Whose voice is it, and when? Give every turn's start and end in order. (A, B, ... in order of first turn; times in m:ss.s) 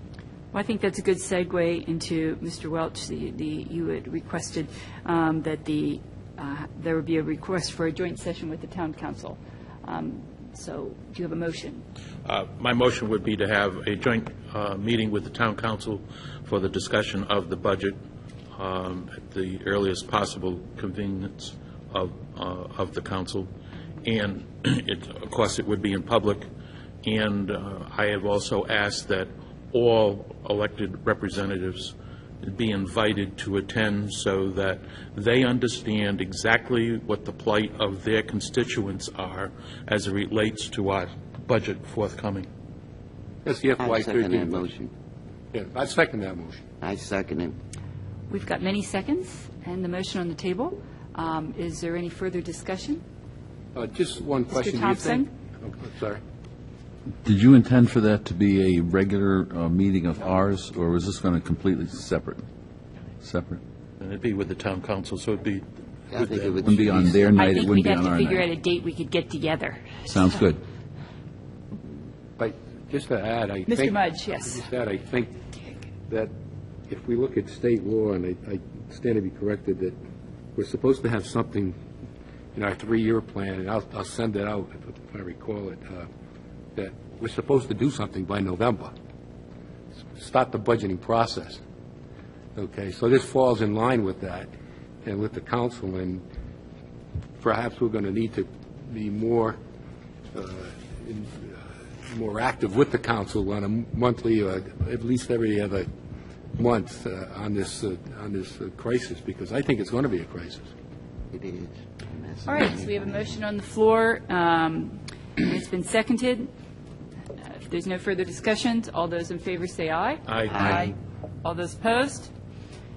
0:00.5-0:11.8 A
0:12.2-0:18.0 B
0:18.5-0:23.5 B
0:24.0-0:26.5 B
0:27.0-0:42.5 B
0:43.4-0:44.7 C
0:43.8-0:44.9 D
0:45.5-0:46.7 C
0:46.8-0:47.6 D
0:48.3-0:53.0 A
0:53.8-0:56.2 C
0:54.5-0:55.3 A
0:57.2-1:02.5 E
1:03.2-1:03.6 E
1:04.0-1:06.6 B
1:06.1-1:07.4 D
1:06.6-1:08.5 E
1:07.4-1:10.4 A
1:10.1-1:10.6 E
1:12.4-1:15.4 C
1:13.7-1:14.7 A
1:16.9-1:20.0 C
1:20.6-1:21.8 C
1:22.6-1:26.1 C
1:26.8-1:28.9 C
1:30.1-1:31.6 C
1:32.6-1:34.5 C
1:35.0-1:36.2 C
1:37.4-1:39.6 C
1:40.3-1:45.9 C
1:46.6-1:50.7 C
1:51.3-1:53.4 D
1:52.5-1:56.5 A
1:57.6-2:02.3 A
2:00.3-2:00.8 B